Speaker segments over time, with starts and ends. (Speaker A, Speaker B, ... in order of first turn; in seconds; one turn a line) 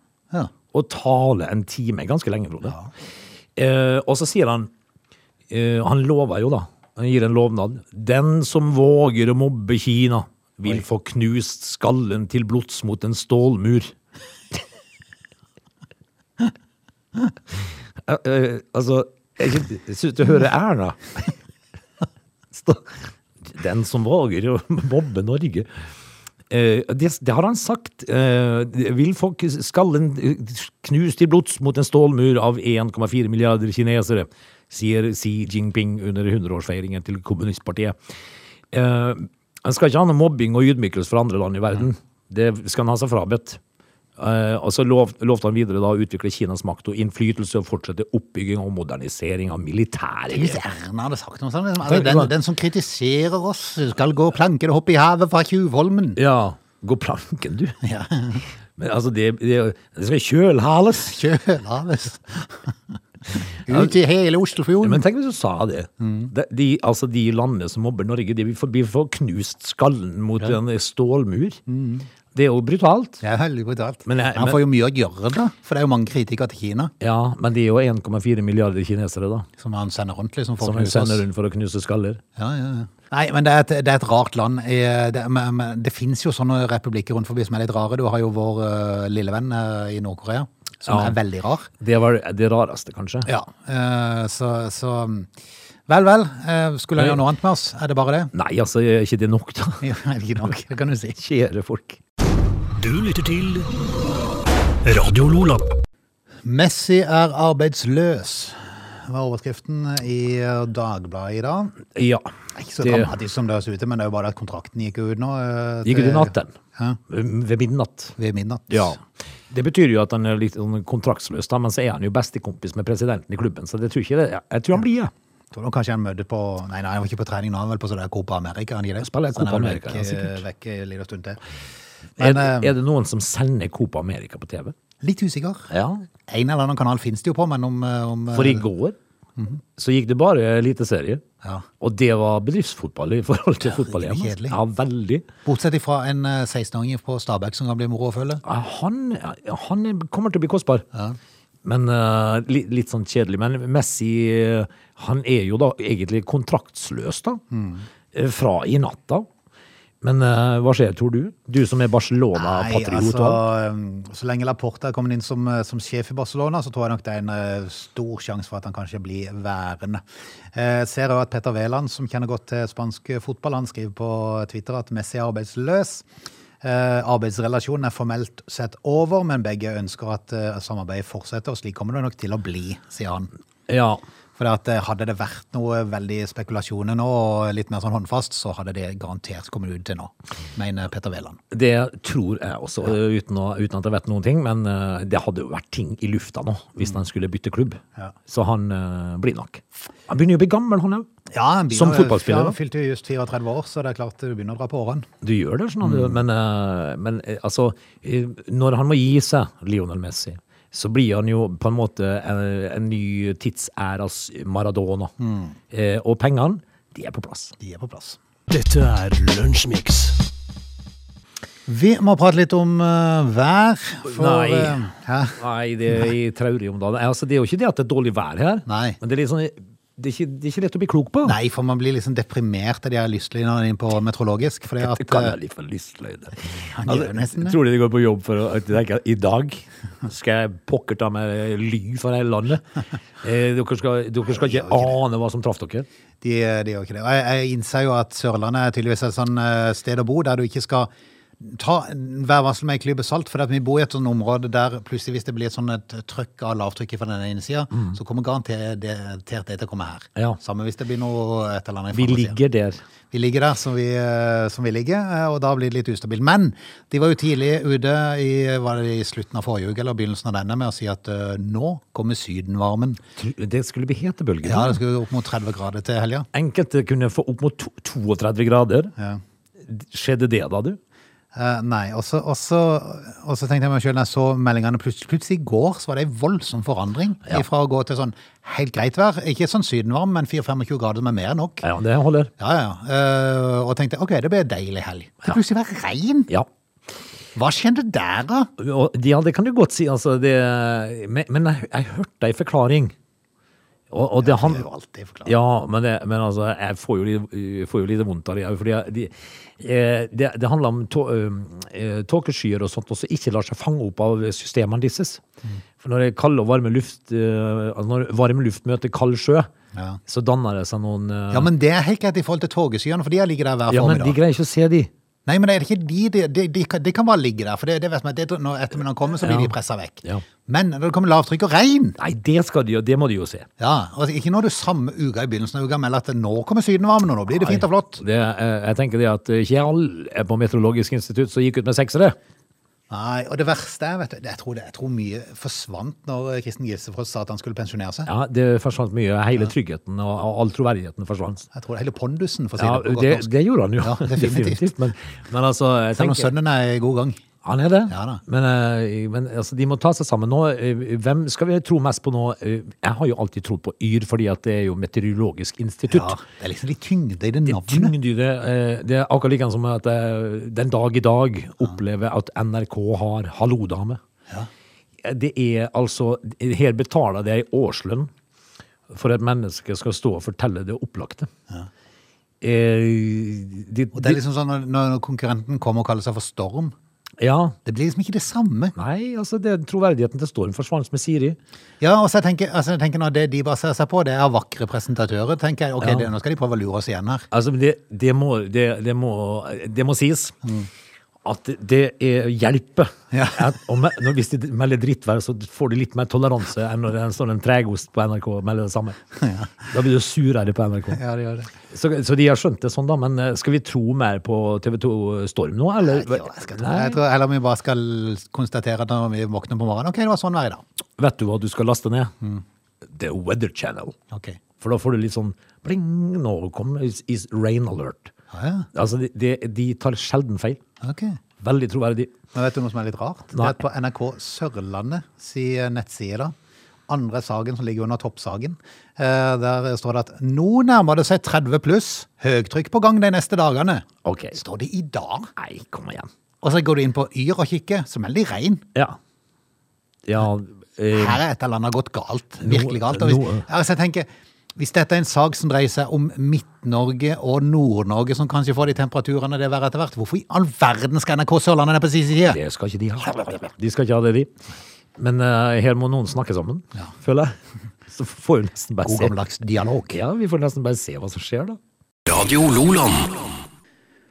Speaker A: 0.7-2.8
Speaker A: 3.5-4.7
Speaker A: 5.5-13.9
Speaker A: 18.0-21.3
Speaker A: 22.5-22.9
Speaker A: 23.4-25.7
Speaker A: 26.5-38.0
Speaker A: 38.7-43.6
Speaker A: 44.2-50.6
Speaker B: 50.3-56.2
Speaker A: 51.8-52.3
Speaker A: 56.1-57.8
Speaker B: 57.8-58.5
Speaker A: 58.8-61.2
Speaker B: 61.0-62.7
Speaker B: 63.6-65.0
Speaker A: 64.8-71.6
Speaker B: 66.0-66.3
Speaker B: 71.7-72.1
Speaker A: 72.3-73.2
Speaker B: 73.2-76.9
Speaker A: 74.0-74.6
Speaker A: 77.0-79.5
Speaker B: 79.6-81.2
Speaker A: 80.6-82.2
Speaker B: 82.3-91.7
Speaker A: 90.8-91.2
Speaker A: 91.8-93.3
Speaker B: 93.2-95.3
Speaker B: 95.9-98.3
Speaker A: 98.3-99.9
Speaker B: 99.8-101.2
Speaker A: 101.2-102.0
Speaker C: 102.8-103.7
Speaker C: 104.8-105.7
Speaker B: 106.4-111.8
Speaker A: 111.9-112.3
Speaker B: 112.5-117.0
Speaker A: 112.8-113.1
Speaker A: 115.8-116.5
Speaker A: 117.1-118.2
Speaker B: 118.2-119.0
Speaker A: 118.7-119.0
Speaker A: 119.5-125.1
Speaker B: 125.5-131.4
Speaker A: 129.0-130.4
Speaker B: 132.2-132.7
Speaker A: 132.2-134.7
Speaker B: 135.0-135.7
Speaker A: 135.7-136.1
Speaker B: 136.3-138.6
Speaker A: 138.3-139.0
Speaker A: 139.8-141.2
Speaker A: 141.8-145.3
Speaker B: 143.6-144.6
Speaker B: 145.4-148.4
Speaker A: 148.4-150.8
Speaker A: 151.6-157.4
Speaker B: 157.5-157.8
Speaker A: 158.1-159.3
Speaker A: 160.0-163.4
Speaker B: 162.3-170.0
Speaker B: 170.5-176.0
Speaker B: 176.6-183.3
Speaker A: 183.7-184.0
Speaker B: 184.4-191.4
Speaker A: 191.5-201.1
Speaker B: 201.3-205.1
Speaker A: 201.7-202.6
Speaker A: 205.2-215.1
Speaker B: 205.8-206.2
Speaker B: 215.2-215.5
Speaker A: 215.7-217.5
Speaker B: 217.6-218.2
Speaker C: 218.5-220.2
Speaker B: 221.7-225.4
Speaker A: 224.1-224.8
Speaker A: 225.4-231.3
Speaker B: 228.7-229.0
Speaker B: 231.2-235.3
Speaker A: 234.8-242.6
Speaker B: 236.7-237.6
Speaker A: 243.2-245.9
Speaker B: 244.4-244.9
Speaker B: 246.2-262.4
Speaker A: 261.9-262.8
Speaker B: 263.1-273.0
Speaker A: 273.2-274.8
Speaker B: 274.4-276.3
Speaker A: 276.3-278.9
Speaker A: 279.6-280.8
Speaker B: 281.3-291.6
Speaker A: 291.6-292.3
Speaker B: 292.4-296.3
Speaker B: 297.3-298.5
Speaker A: 298.6-302.9
Speaker A: 303.9-304.6
Speaker B: 304.2-305.4
Speaker A: 305.2-315.2
Speaker A: 315.8-319.5
Speaker B: 319.7-320.0
Speaker A: 320.1-321.5
Speaker B: 321.3-324.1
Speaker A: 323.7-324.9
Speaker B: 325.2-332.0
Speaker A: 329.2-329.5
Speaker A: 332.0-333.5
Speaker B: 333.6-338.0
Speaker A: 337.4-342.2
Speaker B: 342.9-348.1
Speaker A: 348.1-351.5
Speaker B: 351.5-354.7
Speaker A: 352.6-356.3
Speaker B: 355.9-357.2
Speaker A: 357.4-366.1
Speaker B: 357.9-358.2
Speaker B: 365.9-367.9
Speaker A: 367.4-374.0
Speaker A: 375.0-378.1
Speaker A: 378.9-381.3
Speaker A: 382.4-384.2
Speaker B: 383.9-386.7
Speaker A: 387.2-387.6
Speaker B: 387.6-388.7
Speaker A: 388.8-391.4
Speaker B: 391.8-397.3
Speaker A: 395.8-396.1
Speaker A: 397.3-400.4
Speaker A: 401.2-409.0
Speaker B: 403.1-403.5
Speaker B: 409.2-409.5
Speaker A: 409.7-411.0
Speaker B: 410.9-411.5
Speaker A: 411.7-417.0
Speaker B: 415.8-420.6
Speaker A: 421.0-422.1
Speaker A: 422.9-423.9
Speaker B: 424.1-424.4
Speaker A: 424.6-428.1
Speaker B: 428.3-428.7
Speaker A: 428.7-430.6
Speaker B: 430.8-431.2
Speaker A: 431.4-432.1
Speaker B: 432.3-436.3
Speaker B: 436.9-445.3
Speaker A: 444.0-444.4
Speaker A: 445.4-446.1
Speaker B: 446.4-448.6
Speaker A: 450.1-451.2
Speaker B: 450.9-462.4
Speaker A: 452.4-453.4
Speaker A: 462.2-464.3
Speaker A: 465.0-467.4
Speaker A: 467.9-469.1
Speaker B: 468.8-470.0
Speaker A: 469.9-471.6
Speaker C: 472.1-473.5